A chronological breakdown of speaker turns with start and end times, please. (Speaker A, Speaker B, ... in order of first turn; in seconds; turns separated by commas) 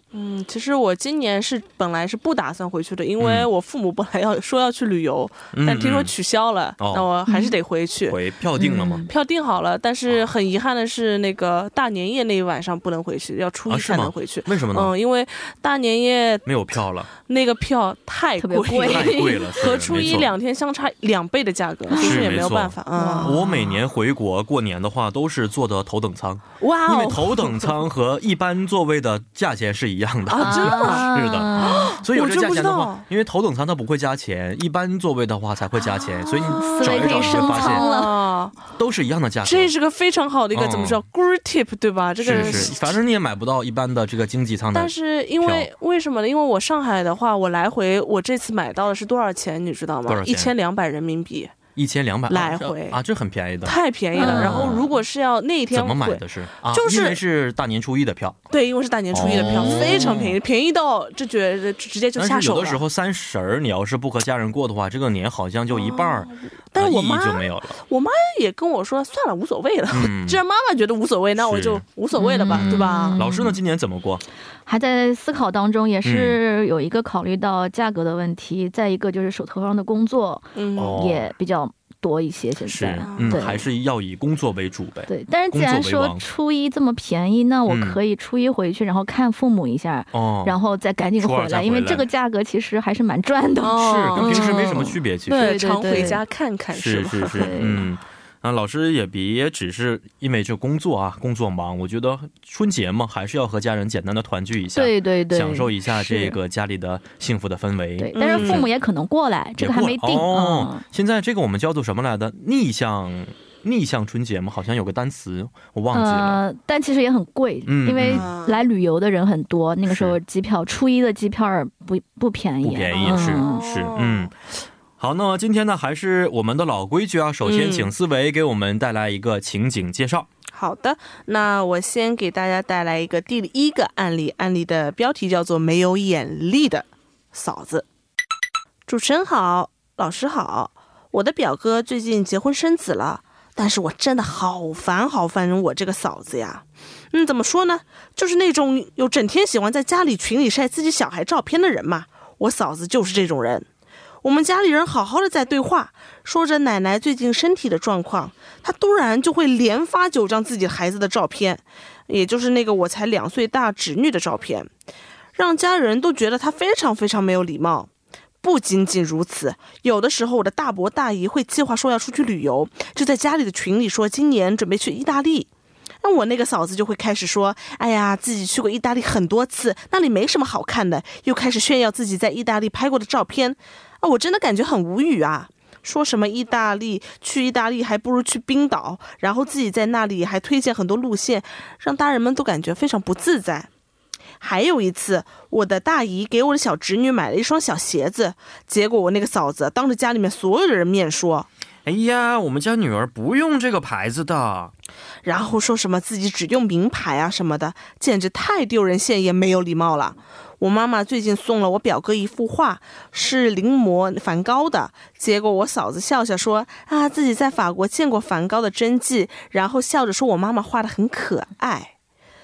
Speaker A: 0.1-8.2, Speaker B: 3.2-3.5, Speaker B: 5.5-6.1, Speaker B: 6.8-7.1, Speaker C: 7.3-7.5, Speaker B: 8.1-9.1, Speaker C: 8.6-9.1, Speaker A: 9.1-16.5, Speaker B: 13.7-14.9, Speaker B: 16.5-17.1, Speaker A: 17.2-23.4, Speaker C: 18.4-20.2, Speaker B: 18.8-20.3, Speaker C: 21.9-22.4, Speaker B: 22.0-37.9, Speaker C: 23.0-23.8, Speaker A: 26.6-27.8, Speaker A: 30.3-33.0, Speaker C: 30.4-32.0, Speaker C: 36.2-38.2, Speaker A: 36.4-38.6, Speaker B: 38.8-39.7, Speaker A: 39.4-43.0, Speaker B: 40.5-41.0, Speaker B: 42.2-45.7, Speaker A: 44.7-51.6, Speaker B: 50.1-50.5, Speaker B: 51.8-54.9, Speaker A: 52.3-53.0, Speaker A: 53.6-57.2, Speaker C: 54.2-54.8, Speaker B: 55.7-58.4, Speaker A: 58.5-62.8, Speaker B: 59.1-60.4, Speaker C: 59.2-60.1, Speaker B: 62.2-67.8, Speaker A: 65.7-73.2, Speaker B: 69.9-70.4, Speaker B: 71.4-71.8, Speaker C: 72.2-73.6, Speaker B: 72.5-74.2, Speaker C: 74.7-83.6, Speaker B: 76.0-76.4, Speaker A: 80.6-81.0, Speaker B: 80.8-81.3, Speaker B: 82.7-86.2, Speaker A: 83.1-83.6, Speaker C: 85.1-96.2, Speaker B: 87.7-88.0, Speaker B: 90.1-90.6, Speaker B: 91.2-92.1, Speaker A: 93.6-94.8, Speaker B: 93.8-96.1, Speaker A: 95.3-97.5, Speaker B: 96.7-108.7, Speaker C: 97.3-97.9, Speaker C: 104.8-106.4, Speaker C: 108.0-110.8, Speaker A: 108.2-108.7, Speaker B: 109.6-116.4, Speaker C: 115.9-123.6, Speaker B: 117.7-118.3, Speaker A: 118.0-118.6, Speaker B: 119.9-120.2, Speaker B: 122.6-124.3, Speaker A: 122.9-124.3, Speaker B: 125.0-130.3, Speaker A: 127.4-127.9, Speaker A: 130.5-137.8, Speaker A: 138.9-153.7, Speaker A: 154.2-164.7, Speaker A: 165.3-167.9, Speaker A: 168.4-175.5, Speaker A: 176.0-193.7, Speaker A: 194.4-201.5, Speaker B: 201.8-204.7, Speaker A: 205.2-221.9